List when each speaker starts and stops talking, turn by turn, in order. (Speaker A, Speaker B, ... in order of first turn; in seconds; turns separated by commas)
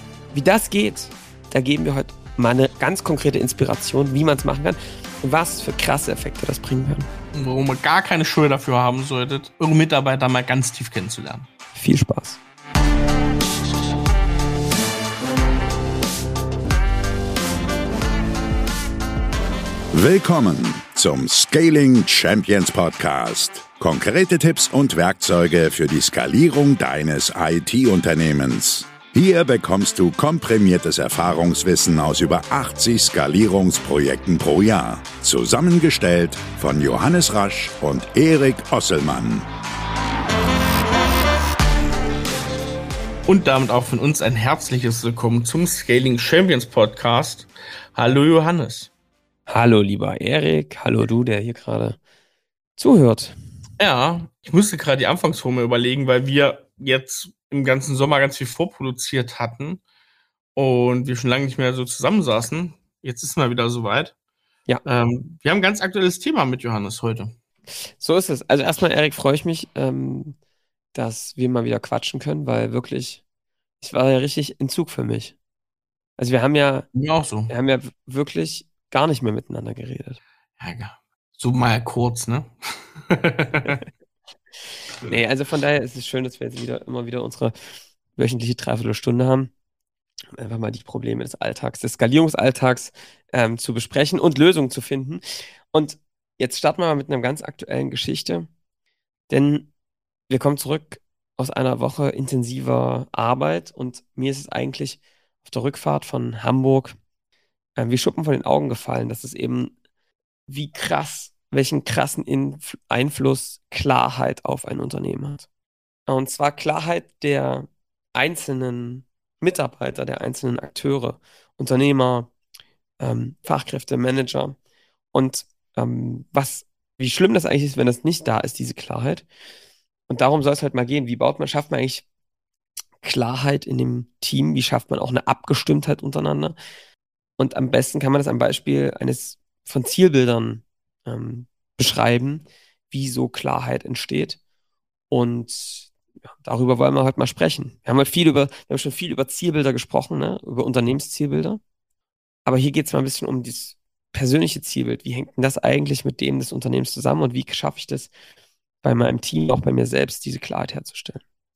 Speaker A: 0.3-7.1, Speaker B: 7.3-11.5, Speaker A: 11.8-12.4, Speaker C: 19.9-39.5, Speaker B: 43.3-48.9, Speaker A: 49.5-52.0, Speaker A: 52.8-53.4, Speaker B: 53.8-59.8, Speaker B: 60.5-64.1, Speaker B: 64.8-67.3, Speaker A: 68.0-70.4, Speaker A: 70.9-73.2, Speaker A: 73.8-75.3, Speaker A: 76.2-76.9, Speaker B: 76.9-77.5, Speaker A: 77.5-80.2, Speaker B: 80.6-83.8, Speaker A: 85.0-87.6, Speaker A: 88.2-89.5, Speaker A: 90.4-98.5, Speaker A: 99.3-99.7, Speaker A: 100.3-107.0, Speaker A: 107.8-109.7, Speaker A: 110.5-115.5, Speaker A: 116.1-122.3, Speaker A: 123.0-124.6, Speaker A: 125.1-129.2, Speaker A: 130.1-132.0, Speaker A: 133.0-136.6, Speaker A: 137.4-144.4, Speaker A: 145.1-151.6, Speaker A: 152.5-158.1, Speaker A: 158.8-161.2